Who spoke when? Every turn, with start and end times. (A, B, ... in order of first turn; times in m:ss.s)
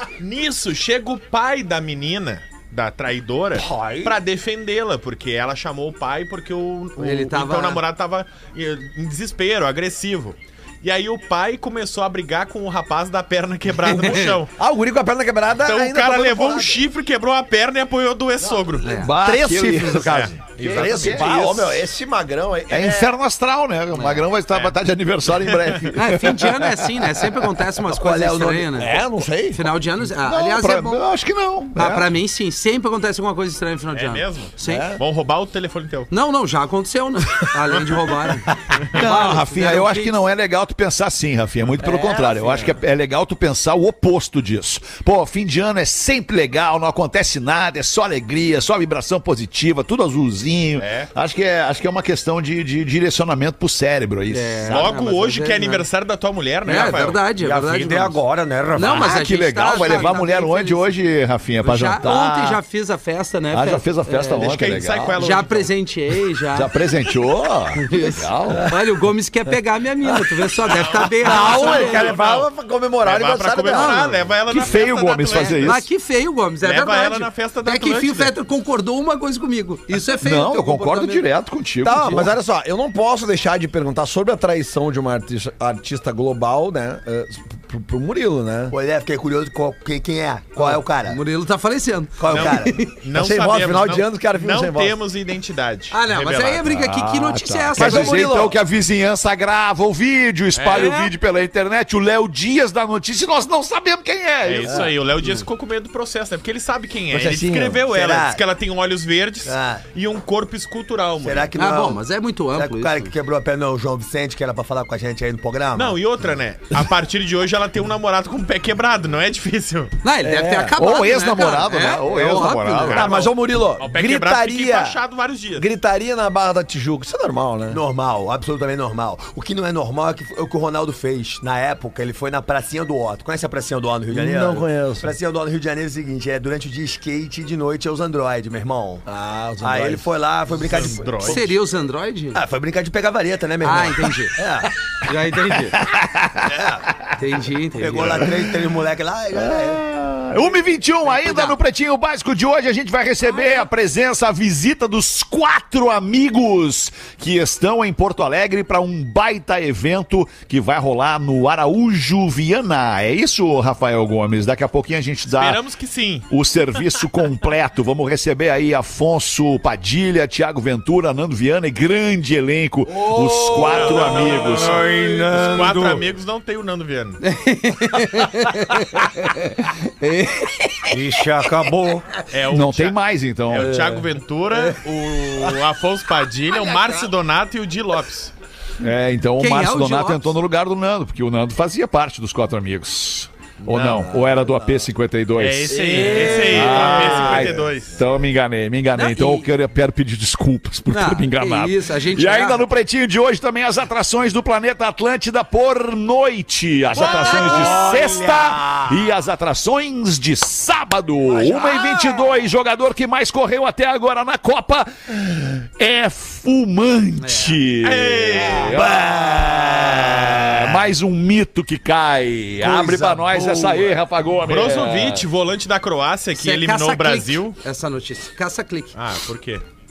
0:00.2-0:14.5 A
0:03.7-0:04.0 B
0:07.0-0:07.8 C
0:13.8-0:14.4 C
0:14.6-0:16.8 D
0:15.6-0:18.9 A
0:18.4-0:23.1 D
0:18.8-0:19.1 C
0:19.0-0:21.8 E
0:20.0-0:21.3 A
0:22.7-0:27.1 E
0:23.9-0:24.2 C
0:25.3-0:25.9 A
0:25.9-0:29.0 C
0:28.0-0:28.9 F
0:28.1-0:29.7 D
0:29.5-0:31.0 C
0:30.2-0:32.1 E
0:31.7-0:34.9 C
0:33.9-0:36.1 A
0:34.6-0:35.0 D
0:36.1-0:40.1 C
0:38.9-0:54.8 E
0:41.8-0:42.7 D
0:50.8-0:51.1 A
0:54.3-0:55.8 C
0:54.7-0:57.2 A
0:56.6-0:58.2 C
0:57.4-0:59.1 B
0:58.7-1:00.9 C
0:58.8-1:02.6 E
1:01.6-1:04.5 C
1:03.5-1:05.2 E
1:04.3-1:05.7 A
1:05.2-1:06.7 C
1:06.5-1:08.7 E
1:07.8-1:12.1 C
1:10.6-1:12.5 A
1:11.2-1:14.2 D
1:13.0-1:15.8 A
1:13.7-1:14.2 C
1:14.5-1:15.8 E
1:15.3-1:21.2 C
1:16.6-1:18.3 A
1:20.2-1:22.4 E
1:21.8-1:28.7 D
1:28.7-1:31.2 F
1:31.1-1:32.9 C
1:32.2-1:32.8 F
1:32.3-1:36.7 A
1:33.1-1:35.0 D
1:35.9-1:38.2 C
1:36.6-1:44.9 E
1:37.7-1:38.6 D
1:40.5-1:40.9 A
1:40.7-1:41.1 C
1:44.4-1:51.5 A
1:47.1-1:47.8 D
1:47.8-1:48.4 F
1:49.4-1:49.8 F
1:51.2-1:52.0 F
1:51.6-1:53.1 C
1:52.5-1:56.0 F
1:55.7-1:59.9 A
2:00.0-2:03.1 C
2:00.2-2:00.8 D
2:00.8-2:03.1 E
2:02.3-2:05.7 A
2:02.9-2:05.0 D
2:05.6-2:07.8 D
2:07.7-2:19.0 F
2:14.1-2:15.1 D
2:19.0-2:20.0 D
2:19.6-2:21.4 F
2:20.5-2:21.5 A
2:21.2-2:22.4 C
2:22.3-2:24.7 F
2:23.6-2:24.4 C
2:25.0-2:25.8 C
2:25.8-2:26.7 E
2:26.5-2:26.8 F
2:27.2-2:28.2 C
2:27.8-2:29.8 F
2:28.0-2:28.5 E
2:29.3-2:45.6 E
2:31.1-2:31.6 C
2:45.3-2:46.3 A
2:46.3-2:54.9 E
2:53.1-2:53.6 C
2:53.6-2:57.2 A
2:53.6-2:56.1 B
2:57.2-3:00.9 C
3:00.9-3:02.1 B
3:02.3-3:08.3 A
3:02.5-3:03.7 E
3:08.8-3:45.2 E
3:09.4-3:10.3 C
3:13.7-3:14.1 A
3:14.2-3:14.5 D
3:15.4-3:18.0 A
3:15.7-3:17.6 D
3:18.9-3:19.5 C
3:20.9-3:22.6 C
3:27.0-3:27.8 C
3:27.0-3:27.3 A
3:27.6-3:28.0 F
3:37.2-3:37.6 C
3:37.8-3:38.8 A
3:44.4-3:47.6 A
3:46.4-3:48.9 C
3:48.9-3:49.6 A